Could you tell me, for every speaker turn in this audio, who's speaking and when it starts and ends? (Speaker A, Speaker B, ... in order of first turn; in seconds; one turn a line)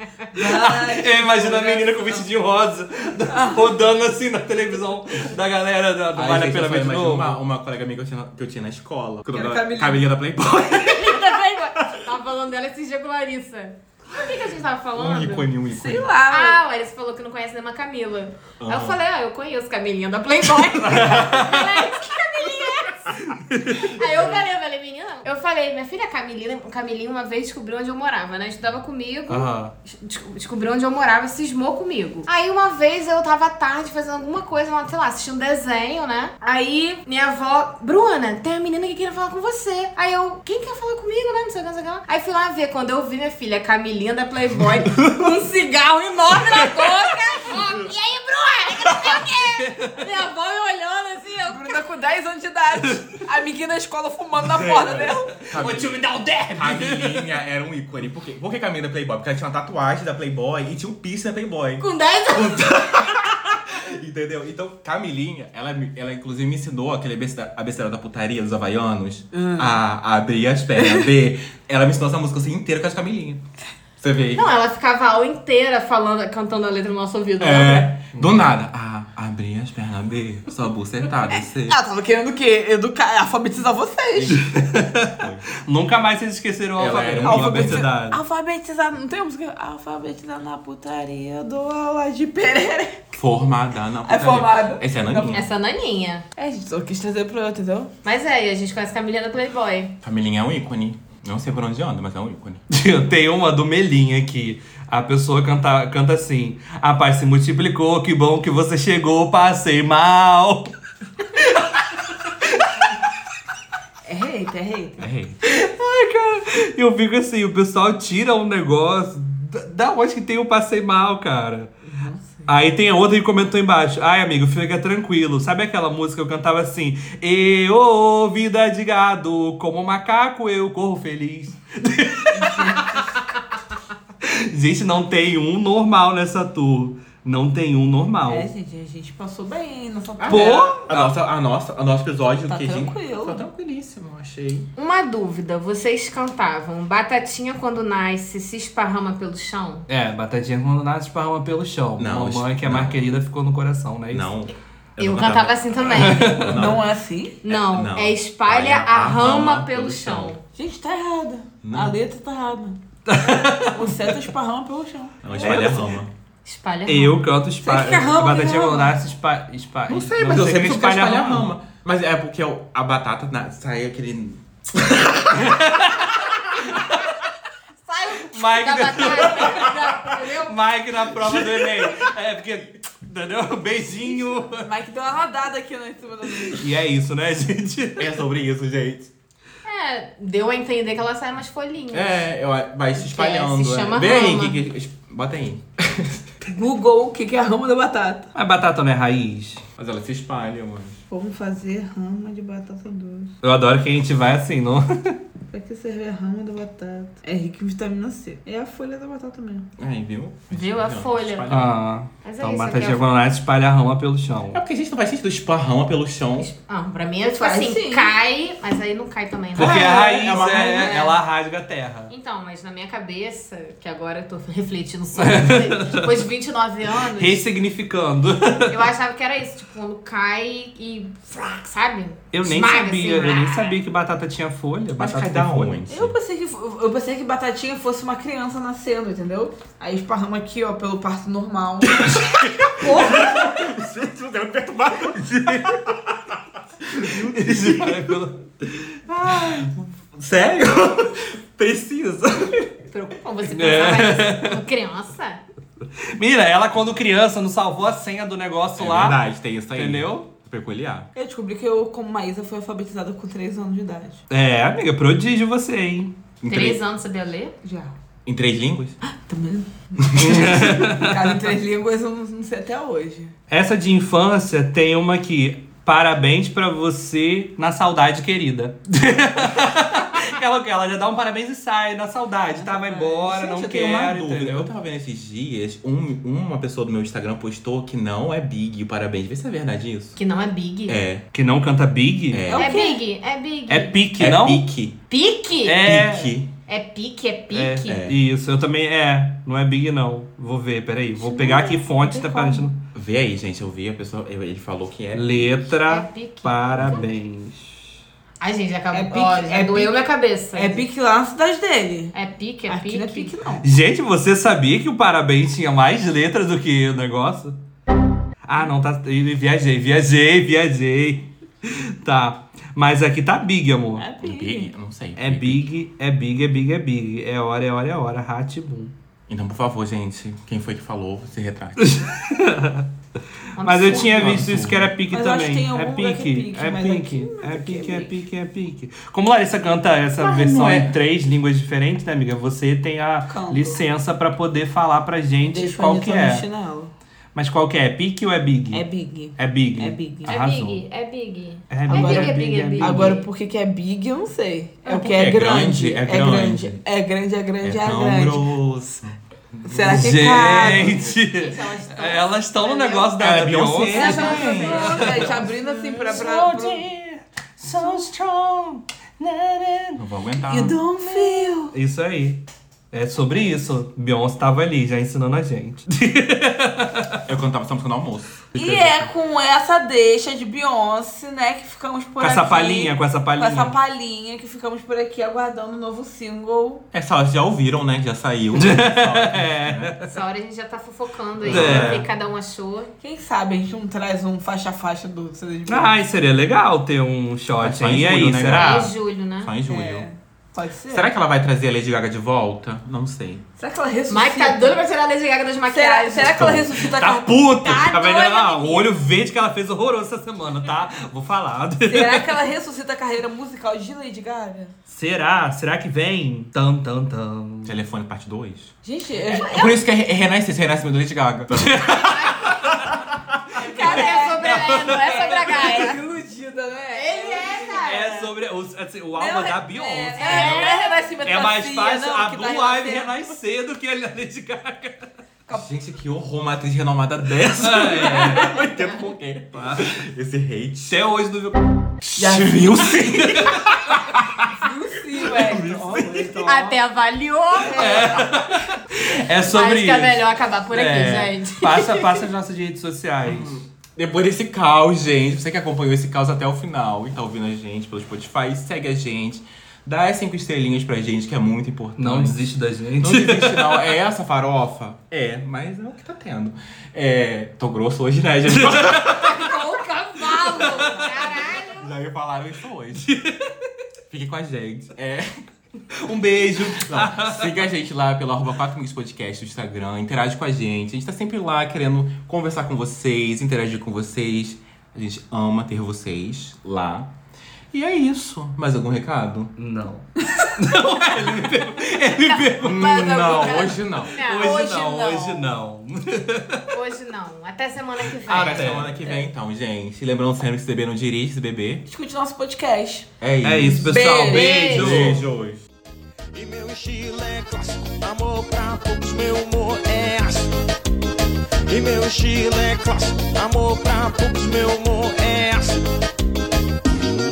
Speaker A: 0.3-2.3
Speaker B: 0.4-7.4
Speaker A: 3.3-3.7
Speaker C: 6.2-12.0
Speaker A: 9.3-10.0
Speaker D: 10.7-15.5
Speaker C: 14.9-16.1
Speaker A: 15.7-16.6
Speaker D: 16.3-23.1
Speaker C: 18.6-19.0
Speaker B: 20.7-21.9
Speaker B: 23.2-24.0
Speaker D: 23.7-51.8
Speaker B: 29.3-29.7
Speaker B: 44.9-45.3
Speaker B: 49.0-49.9
Speaker A: 51.5-55.4
Speaker C: 54.4-56.0
Speaker B: 55.5-57.4
Speaker C: 56.5-73.4
Speaker D: 61.8-62.9
Speaker A: 69.3-69.7
Speaker C: 74.0-74.5
Speaker D: 74.3-77.9
Speaker C: 77.4-81.8
Speaker A: 81.3-84.5
Speaker C: 84.1-85.5
Speaker B: 84.4-88.2
Speaker C: 86.8-87.9
Speaker A: 86.9-93.1
Speaker C: 93.1-95.5
Speaker A: 94.0-95.5
Speaker D: 95.3-96.2
Speaker A: 96.4-97.9
Speaker D: 98.0-100.0
Speaker C: 100.0-102.6
Speaker B: 102.7-110.7
Speaker B: 111.3-111.8
Speaker A: 114.0-115.0
Speaker C: 115.0-115.4
Speaker B: 115.4-121.7
Speaker A: 121.9-122.4
Speaker B: 122.5-133.1
Speaker A: 132.3-133.0
Speaker B: 134.2-138.5
Speaker A: 138.3-140.6
Speaker C: 140.2-144.7
Speaker B: 140.3-141.1
Speaker A: 142.5-143.4
Speaker D: 144.8-149.9
Speaker B: 149.9-154.3
Speaker C: 152.0-153.0
Speaker C: 154.1-156.8
Speaker D: 155.0-156.5
Speaker B: 155.9-156.6
Speaker A: 156.5-157.4
Speaker C: 157.4-160.4
Speaker D: 157.4-160.4
Speaker A: 160.6-165.6
Speaker C: 161.6-162.0
Speaker B: 163.1-164.2
Speaker C: 165.2-166.1
Speaker B: 165.3-166.0
Speaker D: 166.4-167.2
Speaker B: 166.9-171.5
Speaker A: 167.6-169.0
Speaker C: 169.9-176.3
Speaker B: 175.4-176.9
Speaker D: 177.9-180.6
Speaker B: 178.3-179.8
Speaker C: 179.5-179.7
Speaker B: 180.3-184.7
Speaker A: 184.3-186.7
Speaker B: 186.5-188.2
Speaker C: 188.0-189.1
Speaker D: 189.7-192.2
Speaker C: 191.9-196.3
Speaker D: 193.0-194.6
Speaker A: 196.5-198.3
Speaker B: 198.3-199.6
Speaker C: 199.8-201.0
Speaker A: 201.1-203.3
Speaker B: 203.4-205.2
Speaker A: 205.5-209.7
Speaker C: 209.8-211.7
Speaker D: 210.5-211.6
Speaker B: 211.5-214.6
Speaker D: 212.2-213.0
Speaker C: 214.5-216.5
Speaker D: 216.4-220.0
Speaker A: 217.4-218.1
Speaker B: 219.6-222.1
Speaker A: 219.6-221.1
Speaker C: 219.8-221.1
Speaker D: 222.1-227.4
Speaker B: 225.2-226.2
Speaker B: 227.2-228.8
Speaker D: 228.7-233.8
Speaker B: 232.3-235.8
Speaker C: 235.0-236.2
Speaker A: 235.9-243.5
Speaker C: 241.8-248.2
Speaker B: 247.0-248.4
Speaker C: 249.1-252.7
Speaker D: 252.9-255.4
Speaker B: 253.5-254.6
Speaker B: 256.2-259.2
Speaker C: 258.8-261.1
Speaker B: 259.7-260.3
Speaker A: 261.1-264.2
Speaker B: 264.3-266.1
Speaker C: 266.4-266.8
Speaker D: 266.5-267.6
Speaker A: 267.6-267.9
Speaker C: 268.3-269.0
Speaker A: 269.1-273.3
Speaker C: 270.1-270.4
Speaker B: 270.2-271.5
Speaker B: 273.5-284.7
Speaker A: 282.6-283.3
Speaker C: 283.2-290.2
Speaker D: 290.2-291.0
Speaker C: 290.9-291.2
Speaker B: 291.3-292.5
Speaker C: 292.3-292.7
Speaker A: 292.5-293.0
Speaker D: 292.5-293.9
Speaker B: 293.7-294.6
Speaker C: 294.2-295.0
Speaker D: 295.1-295.8
Speaker B: 295.7-296.3
Speaker C: 295.8-296.5
Speaker D: 296.7-298.0
Speaker B: 297.5-302.8
Speaker C: 297.9-298.2
Speaker A: 301.2-302.7
Speaker C: 302.9-305.6
Speaker B: 305.1-307.9
Speaker D: 305.9-307.1
Speaker D: 308.4-310.8
Speaker A: 308.9-309.9
Speaker A: 310.5-312.1
Speaker D: 312.1-313.4
Speaker A: 312.7-313.7
Speaker B: 313.6-317.6
Speaker B: 318.4-324.1
Speaker A: 323.9-324.7
Speaker C: 324.2-325.7
Speaker B: 325.2-328.9
Speaker C: 329.3-331.9
Speaker B: 331.8-332.9
Speaker D: 333.6-334.5
Speaker B: 333.6-346.5
Speaker C: 333.9-334.9
Speaker A: 335.1-338.1
Speaker C: 340.2-341.0
Speaker A: 343.3-343.8
Speaker A: 345.5-346.9
Speaker B: 347.4-350.8
Speaker A: 348.7-350.3
Speaker D: 350.3-353.3
Speaker B: 351.7-353.1
Speaker A: 351.9-358.4
Speaker C: 354.9-356.8
Speaker C: 357.6-360.9
Speaker A: 359.7-361.0
Speaker B: 359.8-370.0
Speaker D: 360.9-363.1
Speaker C: 363.2-365.4
Speaker D: 363.9-365.2
Speaker A: 363.9-366.9
Speaker C: 370.0-370.9
Speaker A: 370.5-371.7
Speaker B: 371.1-377.2
Speaker C: 377.3-379.1
Speaker A: 378.6-386.8
Speaker B: 382.2-383.8
Speaker C: 386.9-390.0
Speaker B: 388.6-390.1
Speaker D: 390.1-392.9
Speaker C: 391.4-392.1
Speaker B: 391.4-392.1
Speaker A: 393.0-396.0
Speaker B: 395.7-398.9
Speaker C: 397.6-400.1
Speaker D: 398.5-399.5
Speaker A: 399.7-401.1
Speaker C: 400.9-403.4
Speaker A: 403.6-404.8
Speaker D: 404.1-406.6
Speaker A: 405.7-407.7
Speaker C: 406.2-406.8
Speaker B: 406.8-412.3
Speaker D: 407.6-408.9
Speaker A: 411.9-414.7
Speaker B: 414.9-417.8
Speaker C: 417.6-423.4
Speaker A: 418.8-419.8
Speaker B: 421.5-422.3
Speaker D: 421.9-422.7
Speaker D: 423.6-426.0
Speaker A: 423.6-428.2
Speaker B: 423.8-425.8
Speaker D: 426.9-428.2
Speaker B: 427.7-435.1
Speaker A: 429.1-433.3
Speaker D: 430.1-431.0
Speaker C: 435.5-441.0
Speaker B: 437.6-438.5
Speaker B: 439.6-439.9
Speaker B: 440.9-441.6
Speaker C: 442.0-444.5
Speaker A: 442.2-442.5
Speaker A: 444.5-446.3
Speaker C: 445.2-446.4
Speaker B: 446.0-446.8
Speaker D: 446.4-448.1
Speaker A: 447.6-448.1
Speaker B: 447.7-453.6
Speaker D: 449.5-452.2
Speaker C: 453.2-462.4
Speaker B: 462.0-463.9
Speaker C: 463.0-469.5
Speaker B: 468.5-469.4
Speaker D: 469.1-471.9
Speaker B: 470.2-471.0
Speaker C: 471.7-473.1
Speaker B: 473.0-473.5
Speaker C: 474.1-475.4
Speaker B: 476.0-477.6
Speaker C: 476.6-487.1
Speaker C: 487.7-489.5
Speaker B: 489.6-493.3
Speaker C: 492.6-494.2
Speaker A: 492.6-493.8
Speaker D: 493.0-494.6
Speaker B: 494.2-496.6
Speaker A: 494.3-495.5
Speaker D: 496.7-499.2
Speaker C: 498.3-501.9
Speaker B: 498.3-498.9
Speaker A: 501.9-503.1
Speaker C: 503.2-503.9
Speaker B: 503.4-505.2
Speaker A: 503.8-504.6
Speaker D: 504.2-505.2
Speaker C: 504.7-505.6
Speaker E: 506.3-510.6
Speaker E: 511.7-515.9